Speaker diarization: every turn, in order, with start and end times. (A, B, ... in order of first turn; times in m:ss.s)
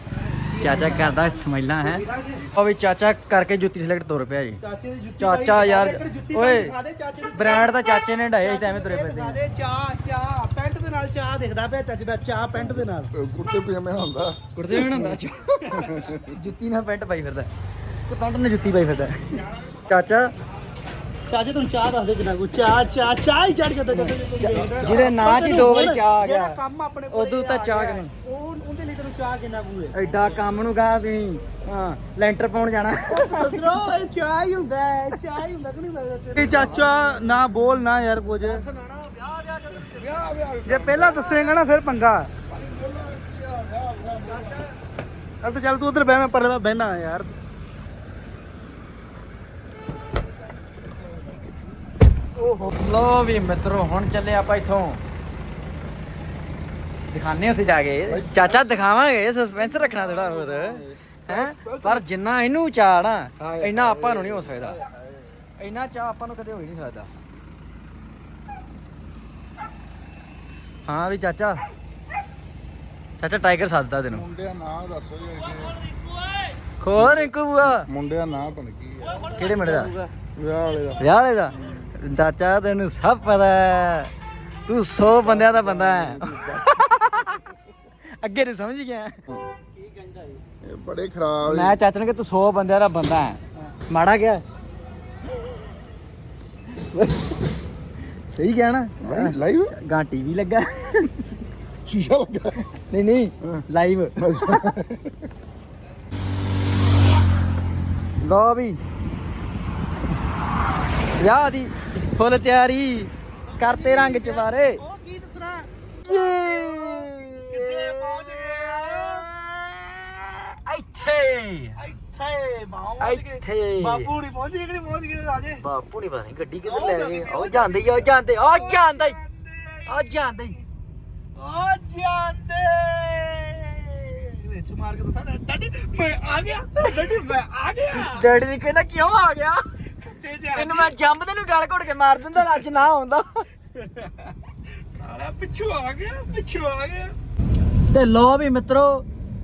0:00.5-0:02.5 A
0:00.6-0:04.6 B
0:04.6-0:13.2 A
0:05.2-0:06.7 B
0:07.3-0:09.4 B
0:13.2-0:15.1 C
0:14.6-0:15.6 B
0:15.6-0:15.9 A
0:16.2-0:17.5 B
0:18.1-0:20.3 B
0:21.3-0:30.4 A
0:23.9-0:26.6 B
0:27.1-0:28.1 B
0:29.9-0:33.8 B
0:33.1-0:38.6 A
0:36.4-0:36.9 B
0:38.4-0:41.5 B
0:39.9-0:41.0 C
0:40.6-0:42.3 A
0:42.5-0:44.6 C
0:44.0-0:44.7 B
0:45.4-0:47.3 A
0:52.4-0:55.0 B
0:57.1-1:04.8 B
0:58.1-0:58.8 C
0:59.6-1:02.0 C
1:03.4-1:05.2 C
1:05.6-1:07.1 B
1:10.9-1:11.6 B
1:13.2-1:14.3 B
1:14.1-1:15.7 C
1:15.9-1:16.4 A
1:16.8-1:17.9 B
1:17.0-1:19.3 C
1:19.0-1:19.9 A
1:19.2-1:20.0 B
1:20.4-1:21.0 C
1:21.0-1:24.1 B
1:24.7-1:27.5 B
1:25.3-1:26.6 C
1:28.2-1:29.2 B
1:30.6-1:31.8 C
1:31.4-1:34.4 B
1:36.9-1:37.4 B
1:38.3-1:41.2 B
1:39.0-1:39.7 C
1:41.9-1:42.6 C
1:42.8-1:44.7 B
1:44.2-1:45.0 C
1:48.2-1:48.8 B
1:51.2-1:54.8 B
1:53.5-1:59.3 A
1:56.0-2:01.8 B
2:01.8-2:05.6 A
2:03.0-2:04.1 B
2:05.6-2:09.2 B
2:06.6-2:10.6 A
2:09.9-2:10.6 B
2:11.4-2:18.3 A
2:18.0-2:19.6 B
2:20.0-2:20.9 A
2:20.5-2:23.4 B
2:22.3-2:22.6 A
2:23.8-2:27.1 A
2:27.9-2:29.0 B